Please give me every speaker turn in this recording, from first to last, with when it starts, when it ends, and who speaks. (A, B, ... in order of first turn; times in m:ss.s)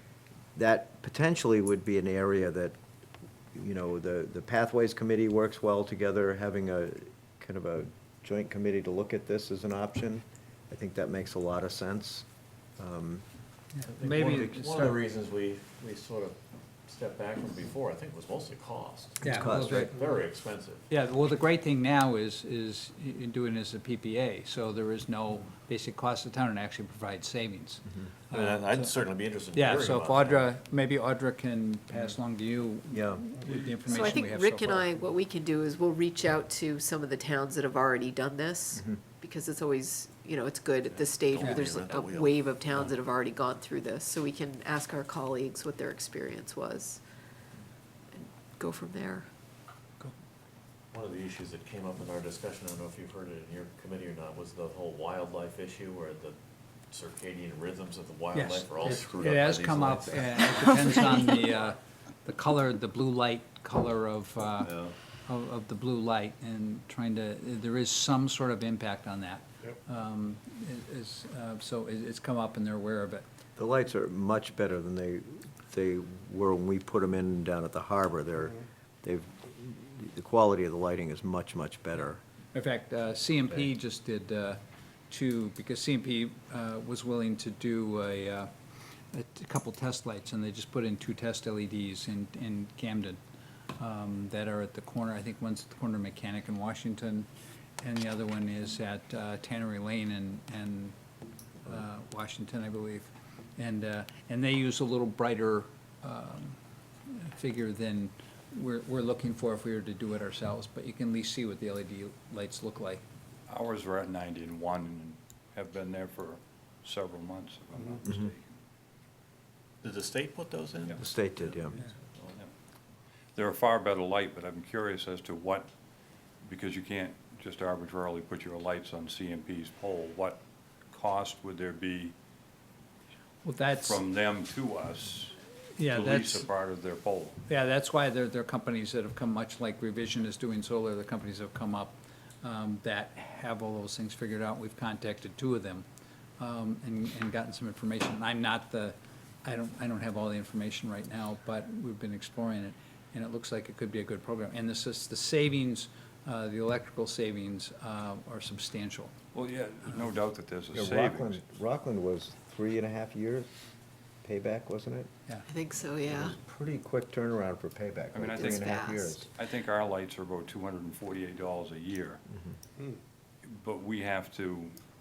0:00.5-0:02.8 A
0:03.5-0:12.2 A
0:12.8-0:13.2 A
0:13.7-0:15.0 B
0:13.9-0:20.9 C
0:19.2-0:19.9 B
0:19.2-0:20.0 A
0:20.9-0:28.9 B
0:28.3-0:30.5 C
0:29.5-0:34.9 B
0:32.9-0:33.2 A
0:33.8-0:47.0 D
0:40.8-0:42.5 C
0:41.4-0:41.6 B
0:48.1-0:49.2 D
0:50.9-0:56.4 C
0:56.9-1:01.3 C
0:58.3-1:04.7 B
1:04.6-1:04.9 C
1:05.2-1:13.2 B
1:13.6-1:22.2 A
1:22.5-1:28.5 B
1:29.1-1:33.2 B
1:33.8-1:37.3 B
1:37.8-1:40.9 B
1:41.6-1:53.0 B
1:53.5-1:58.4 E
1:59.8-2:02.5 C
2:01.0-2:01.8 A
2:03.4-2:05.7 E
2:06.4-2:12.1 E
2:13.4-2:14.0 B
2:13.8-2:15.4 E
2:15.8-2:16.5 B
2:15.9-2:17.4 E
2:17.5-2:25.8 B
2:26.4-2:39.1 B
2:39.3-2:41.4 E
2:40.7-2:43.5 A
2:44.2-2:45.1 A
2:45.5-2:46.3 D
2:46.0-2:49.3 A
2:48.1-2:48.7 E
2:48.3-2:49.2 D
2:49.3-2:52.2 E
2:53.4-2:54.8 E